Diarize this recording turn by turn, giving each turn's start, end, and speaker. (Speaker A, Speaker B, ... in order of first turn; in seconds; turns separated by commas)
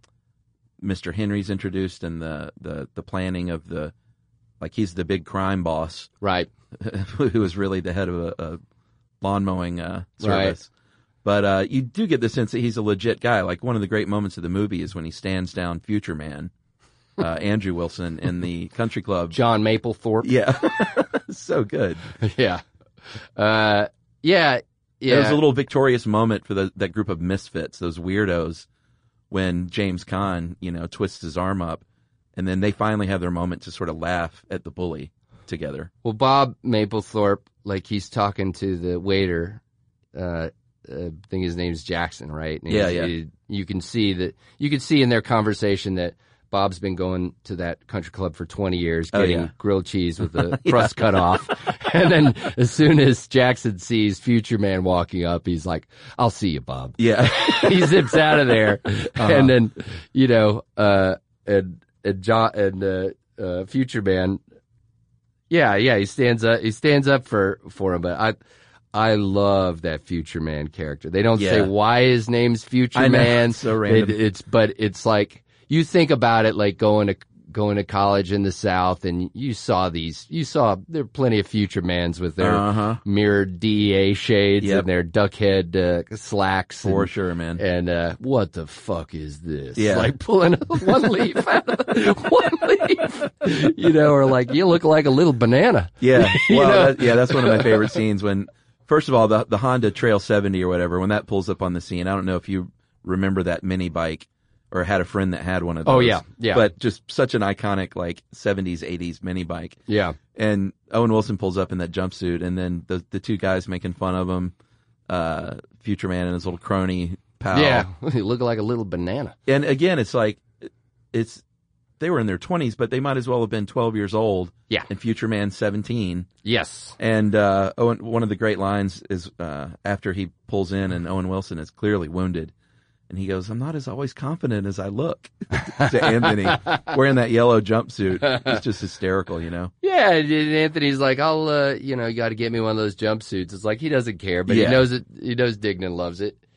Speaker A: 0.8-3.9, Speaker A: 4.6-6.1, Speaker B: 6.2-6.5, Speaker A: 6.8-8.6, Speaker A: 9.2-10.7, Speaker B: 10.2-10.6, Speaker A: 11.2-16.5, Speaker A: 17.2-19.4, Speaker B: 19.3-20.3, Speaker A: 20.2-22.1, Speaker B: 22.2-25.4, Speaker A: 25.1-28.7, Speaker A: 29.3-31.8, Speaker A: 32.4-35.9, Speaker B: 36.0-39.6, Speaker B: 40.1-64.4, Speaker A: 42.7-43.1, Speaker A: 49.1-49.5, Speaker A: 50.4-51.2, Speaker A: 57.0-58.0, Speaker A: 59.2-59.5, Speaker B: 65.5-68.4, Speaker B: 68.9-97.8, Speaker A: 71.4-71.7, Speaker A: 73.0-74.2, Speaker A: 82.4-83.0, Speaker A: 84.6-84.9, Speaker A: 86.8-87.6, Speaker A: 89.8-90.1, Speaker A: 96.0-109.8, Speaker B: 105.9-106.7, Speaker B: 109.9-110.2, Speaker A: 110.3-114.5, Speaker A: 115.1-117.9, Speaker B: 117.5-119.3, Speaker A: 119.5-121.4, Speaker A: 122.0-126.3, Speaker B: 126.5-127.0, Speaker A: 127.0-132.5, Speaker A: 133.1-139.7, Speaker B: 135.8-136.8, Speaker B: 138.2-138.6, Speaker B: 139.8-146.4, Speaker A: 144.5-144.8